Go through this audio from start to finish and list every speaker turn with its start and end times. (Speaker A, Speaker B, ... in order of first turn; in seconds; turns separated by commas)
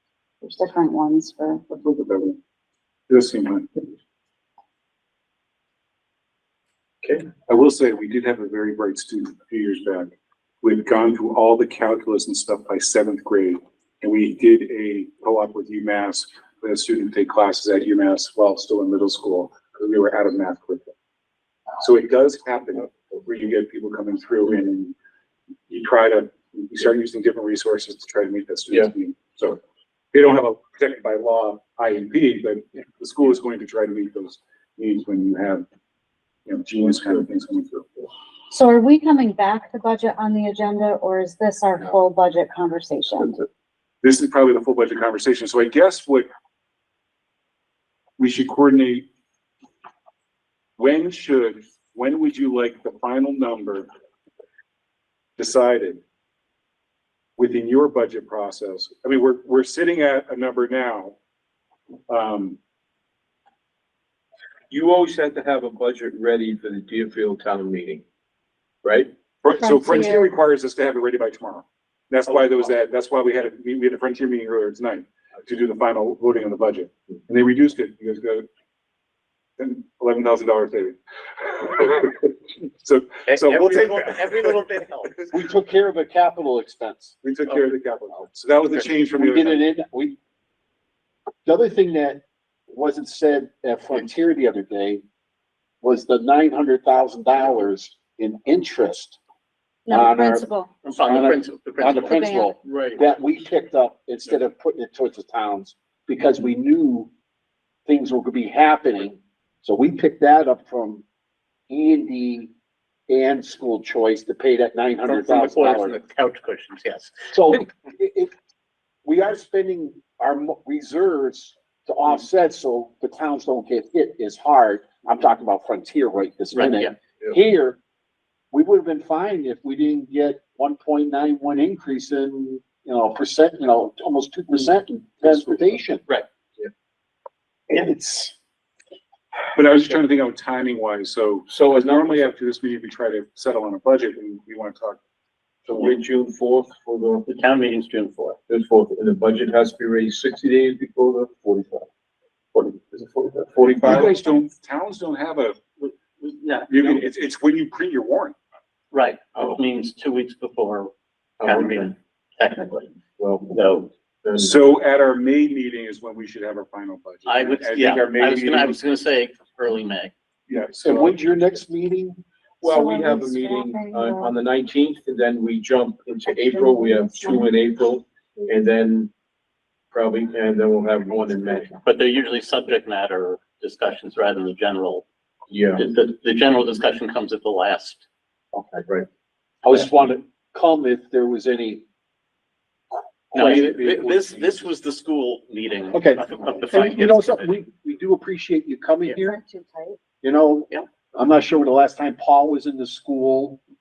Speaker A: 0.4-1.6, Speaker B: 1.7-2.4, Speaker B: 3.1-3.8, Speaker C: 7.0-7.3, Speaker B: 7.4-20.9, Speaker B: 21.8-24.9, Speaker B: 25.7-29.6, Speaker B: 30.1-35.6, Speaker B: 36.5-37.9, Speaker A: 38.5-43.4, Speaker B: 44.0-46.3, Speaker B: 48.2-49.1, Speaker B: 50.8-53.9, Speaker B: 55.4-56.0, Speaker B: 57.4-61.1, Speaker B: 62.1-62.6, Speaker C: 64.7-68.0, Speaker C: 68.8-69.1, Speaker B: 69.4-78.5, Speaker A: 69.5-70.3, Speaker B: 79.6-84.1, Speaker D: 83.3-85.2, Speaker E: 85.3-87.2, Speaker B: 87.2-89.6, Speaker E: 89.1-90.2, Speaker E: 91.5-95.0, Speaker E: 95.8-99.2, Speaker A: 99.9-100.7, Speaker E: 99.9-107.1, Speaker D: 100.8-102.5, Speaker A: 102.0-102.5, Speaker C: 102.7-103.0, Speaker E: 107.9-111.0, Speaker E: 111.7-112.5, Speaker E: 113.1-116.0, Speaker D: 115.0-117.6, Speaker E: 117.3-118.3, Speaker E: 119.0-127.8, Speaker D: 126.5-126.9, Speaker E: 128.5-136.0, Speaker E: 137.7-138.3, Speaker B: 139.5-145.0, Speaker C: 141.5-142.3, Speaker C: 145.7-147.2, Speaker D: 147.2-148.4, Speaker C: 148.5-151.9, Speaker C: 152.5-154.2, Speaker B: 153.7-155.6, Speaker D: 155.8-156.9, Speaker B: 156.7-158.3, Speaker D: 158.9-162.9, Speaker C: 161.4-161.9, Speaker C: 163.2-163.6, Speaker D: 163.5-163.9, Speaker C: 164.2-164.6, Speaker B: 164.3-168.8, Speaker D: 167.3-170.1, Speaker B: 170.5-171.2, Speaker E: 170.8-172.2, Speaker C: 172.6-179.1, Speaker A: 172.6-174.3, Speaker A: 176.5-177.5, Speaker C: 179.9-181.8, Speaker D: 181.7-185.0, Speaker C: 185.5-185.8, Speaker D: 185.6-188.0, Speaker E: 188.5-188.8, Speaker E: 189.6-191.8, Speaker E: 192.9-194.6, Speaker D: 193.3-197.5, Speaker E: 195.9-199.4, Speaker A: 199.1-200.0, Speaker E: 200.2-203.6